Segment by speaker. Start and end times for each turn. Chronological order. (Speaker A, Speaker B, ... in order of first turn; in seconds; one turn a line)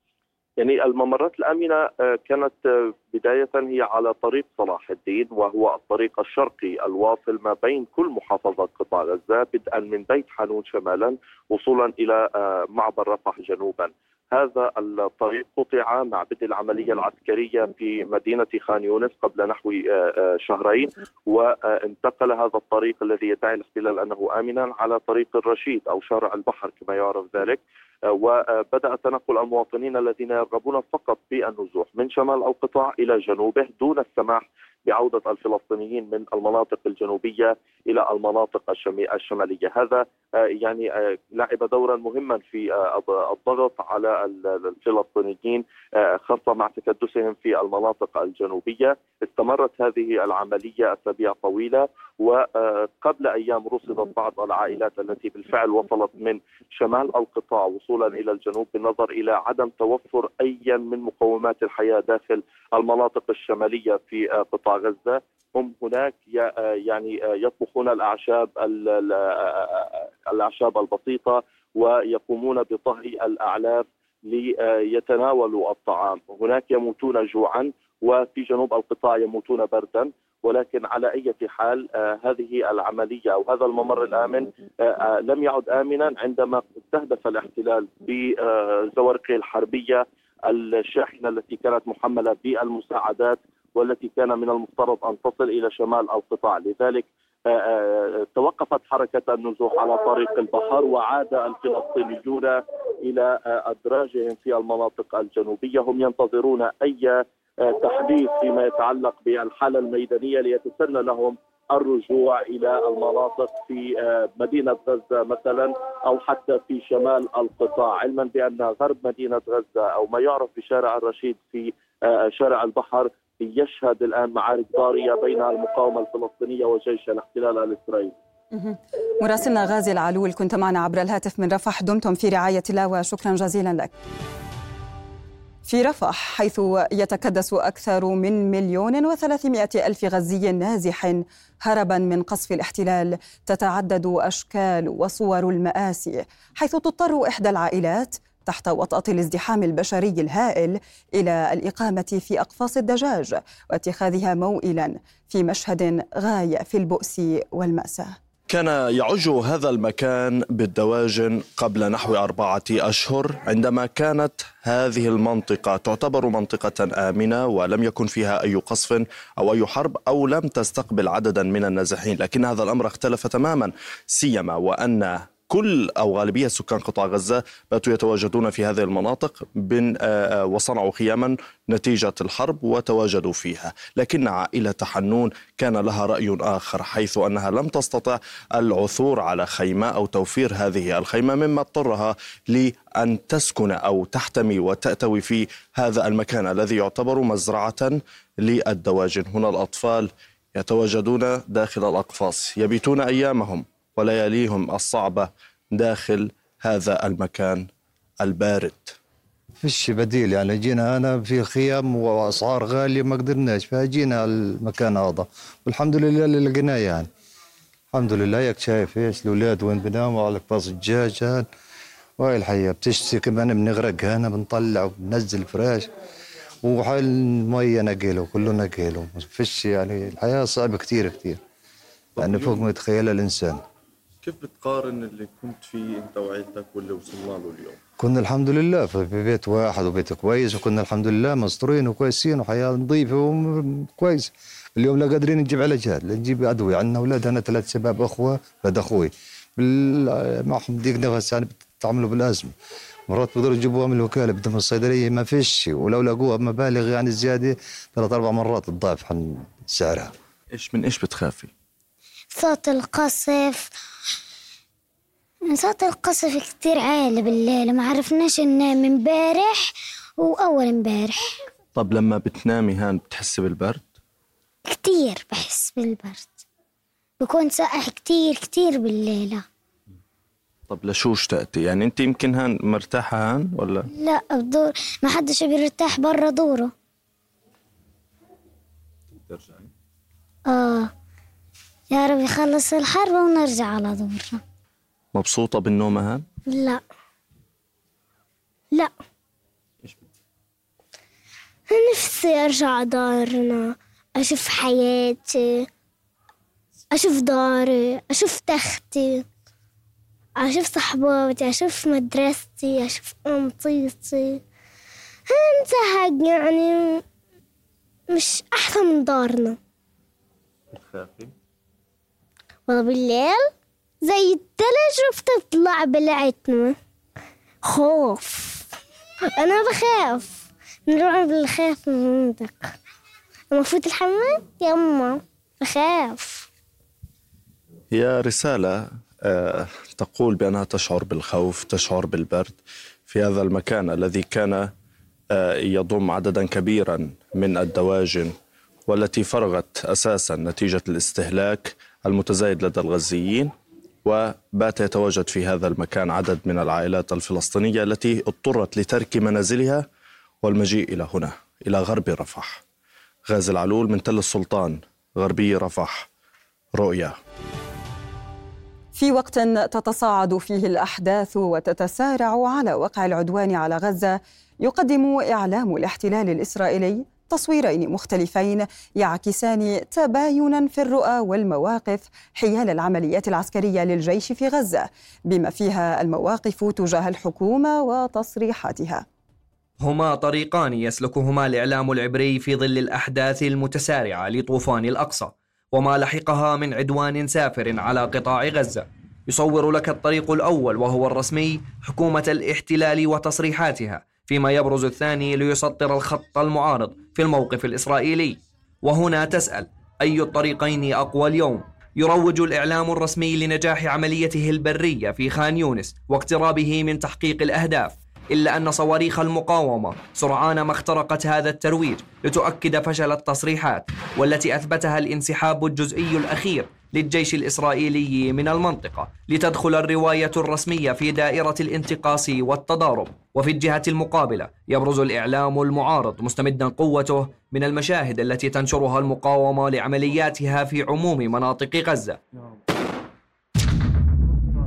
Speaker A: 0.6-128.1
Speaker B: 128.5-133.9
Speaker B: 135.7-158.2
Speaker C: 158.5-207.7
Speaker C: 208.2-209.0
Speaker D: 209.6-217.1
Speaker D: 217.9-221.5
Speaker D: 222.2-225.9
Speaker D: 226.6-231.4
Speaker D: 232.2-233.6
Speaker C: 232.2-232.7
Speaker C: 234.2-237.8
Speaker D: 238.0-252.5
Speaker D: 253.1-260.1
Speaker C: 260.5-261.5
Speaker E: 262.3-263.7
Speaker E: 265.5-271.4
Speaker C: 271.7-273.9
Speaker E: 274.7-276.4
Speaker E: 277.2-279.4
Speaker C: 280.7-283.9
Speaker E: 283.9-286.7
Speaker E: 290.5-290.9
Speaker E: 291.9-294.4
Speaker C: 295.1-296.2
Speaker E: 296.5-296.8
Speaker E: 301.7-305.6
Speaker E: 306.9-309.2
Speaker E: 310.4-314.4
Speaker E: 315.3-317.0
Speaker E: 318.1-319.6
Speaker E: 322.7-323.5
Speaker E: 324.1-326.8
Speaker E: 327.7-328.6
Speaker E: 329.4-332.7
Speaker E: 333.5-336.5
Speaker C: 337.9-344.7
Speaker C: 345.3-348.4
Speaker C: 348.9-353.5
Speaker C: 354.1-359.9
Speaker C: 360.4-362.6
Speaker C: 363.3-366.1
Speaker C: 366.8-367.2
Speaker B: 369.0-389.0
Speaker F: 389.8-442.2